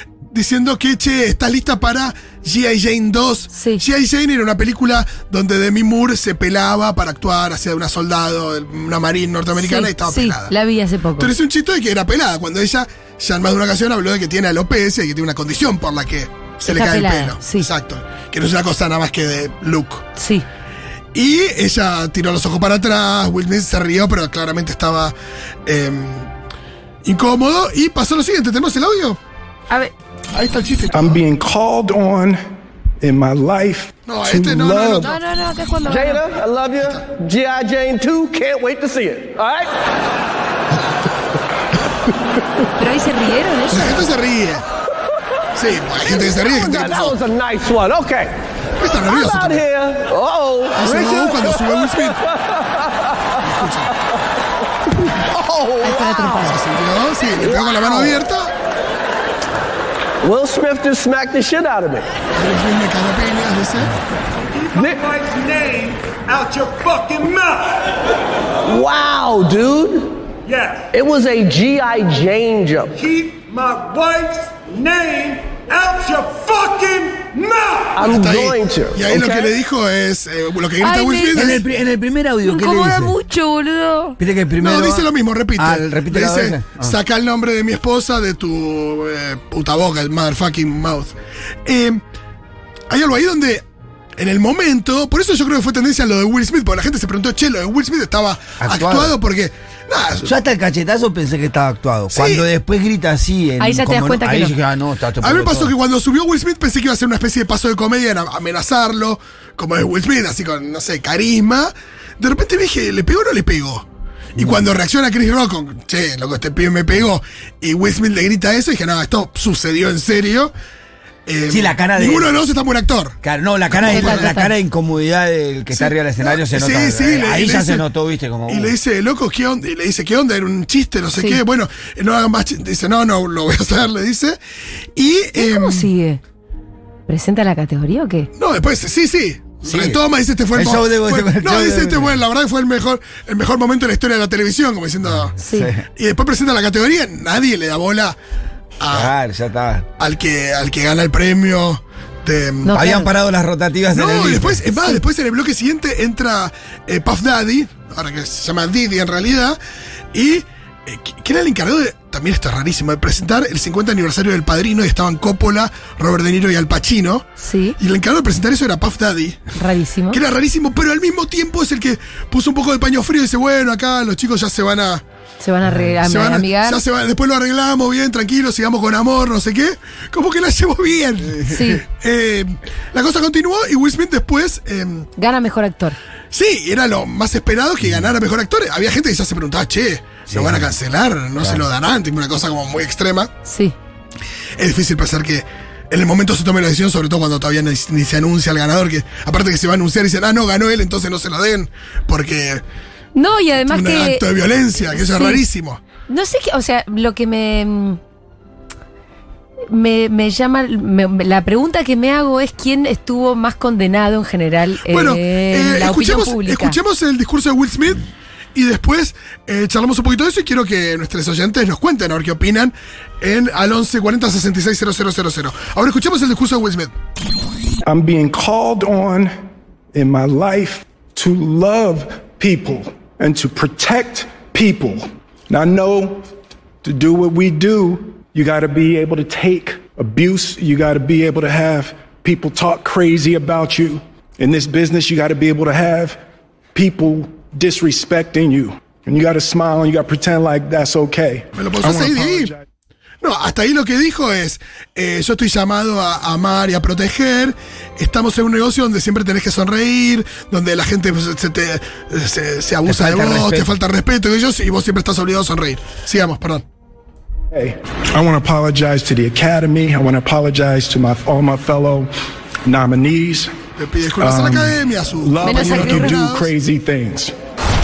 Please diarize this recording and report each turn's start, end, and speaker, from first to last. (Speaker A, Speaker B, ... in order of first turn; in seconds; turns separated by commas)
Speaker A: 0.3-10.5, Speaker B: 3.5-3.8, Speaker B: 9.6-11.3, Speaker A: 11.2-20.1, Speaker B: 16.7-17.7, Speaker B: 20.1-20.4, Speaker A: 21.1-25.1, Speaker A: 25.6-26.3, Speaker A: 27.0-29.2, Speaker A: 30.3-31.2, Speaker C: 30.9-32.4, Speaker C: 33.0-35.1, Speaker A: 34.0-35.1, Speaker B: 35.0-36.2, Speaker D: 35.9-39.7, Speaker B: 42.8-44.0, Speaker A: 43.7-44.6, Speaker A: 45.5-47.2, Speaker D: 46.0-48.3, Speaker A: 48.8-49.6, Speaker D: 49.0-52.0, Speaker A: 50.8-52.2, Speaker A: 53.4-53.9, Speaker D: 55.3-56.3, Speaker B: 55.8-56.6, Speaker A: 56.4-58.5, Speaker D: 57.7-58.1, Speaker D: 60.2-62.1, Speaker A: 62.3-63.9, Speaker E: 64.5-67.8, Speaker D: 64.8-65.0, Speaker D: 68.6-70.2, Speaker E: 70.5-70.9, Speaker D: 70.9-73.0, Speaker E: 73.0-78.1, Speaker D: 78.0-79.5, Speaker A: 78.0-81.6, Speaker B: 80.8-81.6, Speaker F: 81.3-83.1, Speaker B: 82.4-84.2, Speaker F: 84.2-86.9, Speaker A: 84.6-91.1, Speaker A: 91.6-92.0, Speaker A: 92.9-93.6, Speaker A: 94.2-100.3, Speaker F: 98.6-99.2, Speaker F: 100.2-105.7, Speaker A: 102.1-102.5, Speaker B: 103.6-104.5, Speaker A: 105.2-120.5, Speaker F: 114.4-114.6, Speaker A: 121.2-123.2, Speaker F: 121.5-122.3, Speaker F: 123.2-128.7, Speaker A: 123.7-124.3, Speaker B: 123.9-124.5, Speaker A: 125.7-127.8, Speaker A: 128.5-134.4, Speaker B: 131.2-131.4, Speaker A: 134.9-135.9, Speaker B: 135.3-136.2, Speaker B: 137.1-138.3, Speaker A: 138.4-145.3, Speaker F: 139.6-142.2, Speaker B: 145.4-145.7, Speaker F: 145.4-145.8, Speaker A: 145.9-148.2, Speaker A: 148.8-149.1, Speaker F: 148.9-149.9, Speaker A: 150.0-152.8, Speaker B: 152.6-153.1, Speaker F: 152.7-154.6, Speaker A: 153.9-159.6, Speaker B: 154.7-155.0, Speaker A: 160.1-169.4, Speaker B: 167.4-167.8, Speaker B: 169.6-170.2, Speaker A: 170.1-175.0, Speaker B: 175.4-176.8, Speaker A: 176.0-185.1, Speaker B: 181.5-181.8, Speaker B: 185.2-186.0, Speaker A: 186.3-193.3, Speaker F: 190.3-190.7, Speaker F: 191.4-191.6, Speaker B: 193.4-193.7, Speaker A: 194.6-202.6, Speaker B: 203.1-204.2, Speaker A: 203.6-205.8, Speaker B: 204.9-205.4, Speaker B: 206.1-208.0, Speaker B: 209.7-216.8, Speaker A: 214.9-218.0, Speaker A: 218.5-226.9, Speaker C: 227.8-229.3, Speaker C: 229.9-236.3, Speaker C: 236.8-246.2, Speaker C: 246.7-252.6, Speaker A: 251.5-252.5, Speaker A: 253.2-266.6, Speaker F: 262.8-263.7, Speaker C: 267.5-272.1, Speaker C: 272.6-273.5, Speaker A: 273.8-276.5, Speaker C: 274.2-277.3, Speaker B: 275.4-276.3